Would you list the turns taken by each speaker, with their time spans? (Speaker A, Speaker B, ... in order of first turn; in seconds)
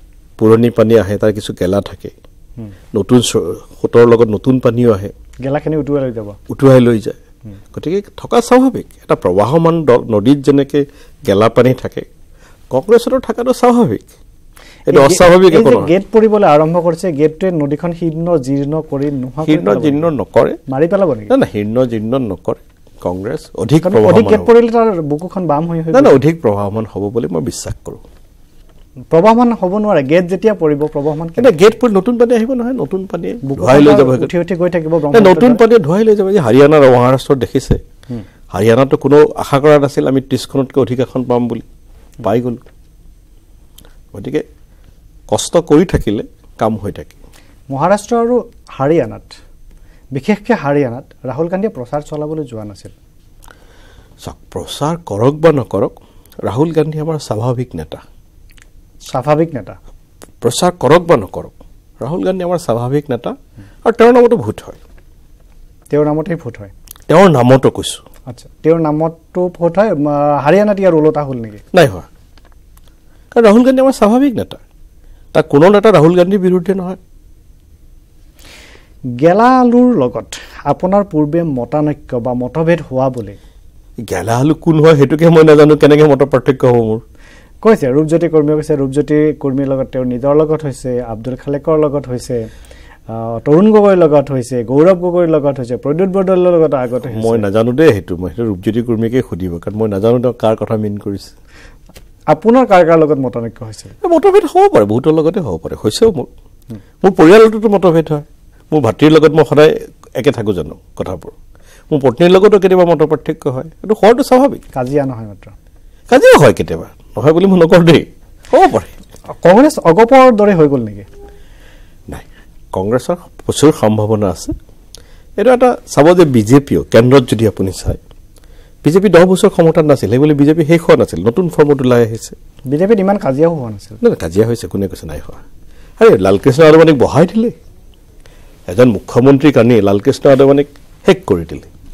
Speaker A: 0.4-2.1, 2.9-5.1, 6.5-7.2, 7.7-12.1, 12.7-14.1, 14.9-15.9, 19.4-20.6, 21.3-24.5, 25.9-28.0, 31.4-34.3, 35.1-37.8, 38.5-41.6, 42.2-42.6, 44.1-44.4, 45.3-47.2, 54.2-58.0, 60.4-64.8, 67.1-68.0, 71.7-72.1, 73.3-74.6, 75.3-77.0, 84.1-87.0, 97.1-101.3, 104.0-106.3, 107.0-111.3, 111.9-114.6, 116.1-118.9, 122.1-124.5, 125.4-128.0, 128.8-132.4, 134.0-135.4, 136.0-137.6, 138.7-141.7
Speaker B: 5.4-6.4, 14.9-20.1, 20.7-21.3, 23.8-26.2, 29.1-31.5, 33.4-35.6, 47.7-49.4, 50.1-52.9, 59.1-59.8, 65.9-66.7, 68.3-71.6, 79.2-83.4, 87.6-92.5, 93.1-97.5, 102.3-104.0, 114.7-115.5, 119.4-121.1, 132.7-134.0